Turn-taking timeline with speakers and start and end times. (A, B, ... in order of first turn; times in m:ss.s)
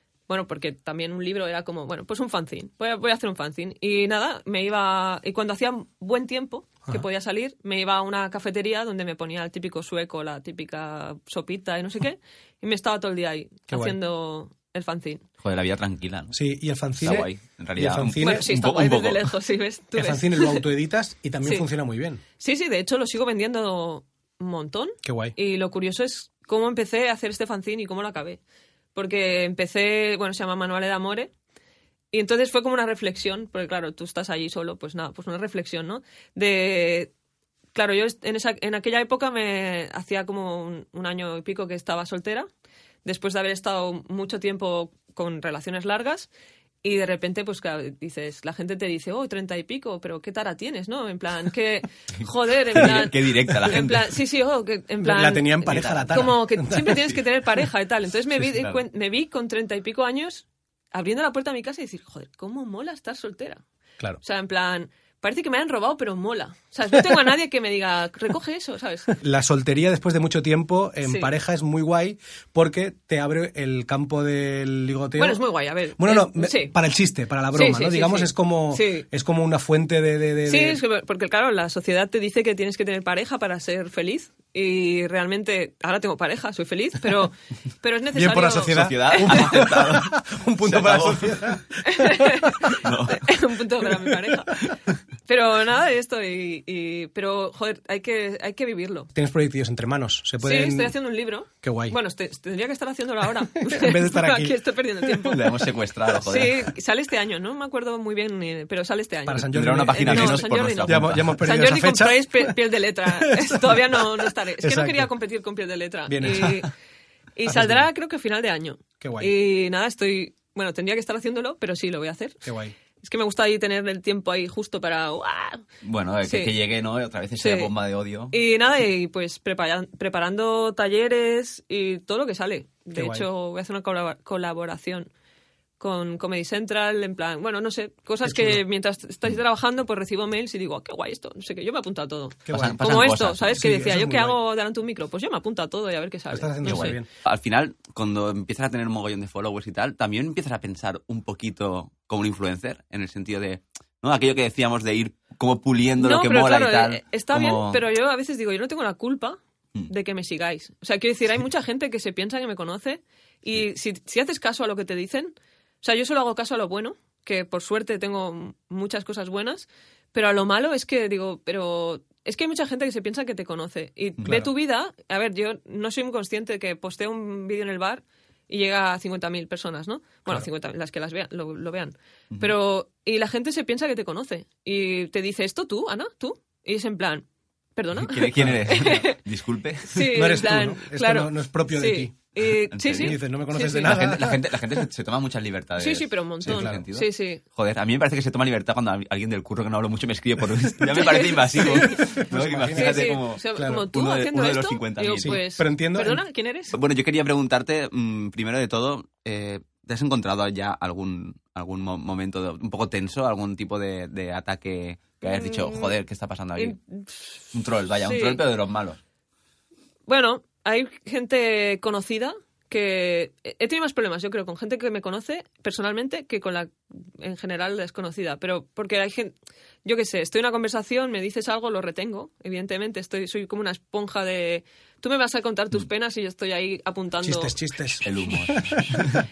0:00.3-0:15.3 A
0:13.7-0:14.0 B
0:15.4-0:16.4 C
0:16.3-0:18.5 B
0:17.0-0:19.4 C
0:18.2-0:20.6 A
0:20.0-0:22.2 B
0:22.4-0:28.4 A
0:25.0-0:25.4 B
0:29.0-0:31.3 A
0:32.1-0:37.1 A
0:37.8-0:42.5 A
0:43.0-0:46.3 A
0:46.8-1:03.6 A
0:52.2-0:54.2 C
0:55.0-0:57.0 B
0:55.7-0:56.9 C
1:04.2-1:09.2 A
1:09.2-1:15.4 B
1:11.0-1:11.3 A
1:15.2-1:16.8 A
1:16.0-1:20.8 B
1:17.5-1:19.1 A
1:20.5-1:29.7 A
1:28.1-1:32.8 B
1:28.6-1:31.6 C
1:31.9-1:34.7 A
1:32.8-1:33.3 C
1:33.8-1:34.5 B
1:35.3-1:39.1 A
1:39.1-1:41.0 B
1:40.4-1:45.6 A
1:41.6-1:42.0 B
1:43.6-1:44.6 B
1:45.2-1:46.7 C
1:46.2-1:56.7 A
1:49.3-1:52.6 B
1:49.4-1:51.4 C
1:53.2-1:55.1 B
1:56.1-1:56.7 B
1:57.4-2:02.4 A
1:57.5-1:57.9 B
1:59.0-1:59.3 B
2:02.4-2:02.7 B
2:03.0-2:05.6 A
2:05.8-2:08.3 C
2:06.2-2:06.5 A
2:07.4-2:07.7 A
2:08.3-2:15.1 A
2:12.9-2:13.3 B
2:15.8-2:27.0 A
2:18.2-2:18.6 B
2:22.5-2:24.4 B
2:22.5-2:23.6 C
2:26.3-2:27.1 B
2:26.6-2:37.8 C
2:36.0-2:39.4 A
2:39.9-3:09.2 A
2:54.2-2:54.5 B
3:08.0-3:10.1 C
3:08.4-3:09.1 B
3:09.9-3:14.0 A
3:10.0-3:12.2 B
3:12.7-3:13.2 C
3:13.0-3:14.4 B
3:13.8-3:25.4 C
3:15.8-3:17.4 A
3:16.4-3:16.8 B
3:20.9-3:22.2 A
3:21.6-3:23.9 B
3:22.7-3:26.8 A
3:25.2-3:26.2 B
3:26.7-3:36.8 C
3:35.2-3:35.9 A
3:36.6-3:37.4 A
3:37.5-3:39.0 C
3:38.0-3:38.4 A
3:40.1-3:57.5 A
3:57.2-3:59.2 B
3:58.0-3:59.2 C